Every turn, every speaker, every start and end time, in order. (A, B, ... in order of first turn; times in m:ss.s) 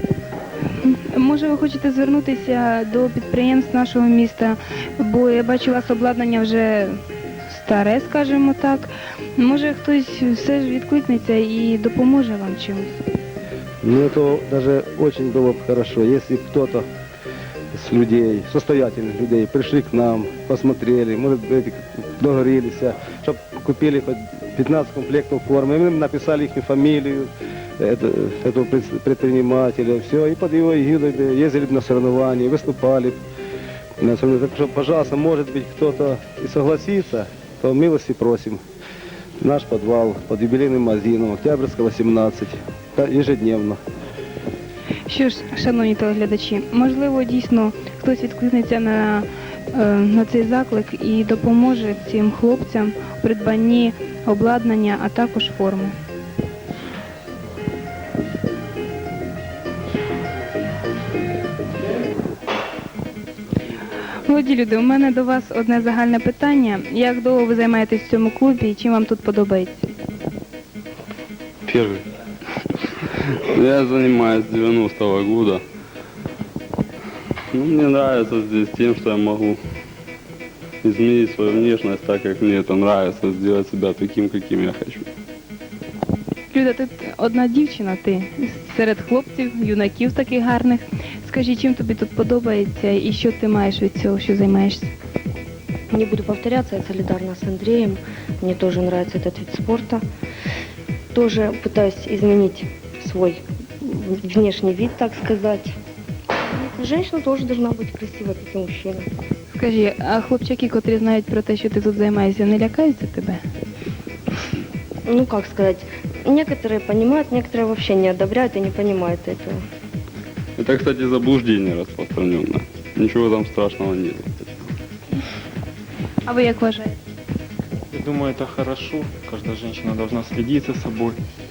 0:00.8-0:13.0 A
0:13.8-0:16.8 B
0:17.7-0:33.2 B
0:34.0-0:38.6 B
0:39.4-0:43.8 B
0:45.1-0:55.9 A
1:04.3-1:09.9 A
1:11.7-1:12.0 C
1:13.3-1:15.6 C
1:17.5-1:19.6 C
1:20.8-1:25.1 C
1:26.5-1:34.9 A
1:35.9-1:40.1 D
1:41.1-1:45.8 D
1:46.5-1:49.1 D
1:49.5-1:53.4 A
1:55.0-1:59.6 D
2:00.6-2:04.7 C
2:06.3-2:07.0 A
2:07.9-2:11.2 E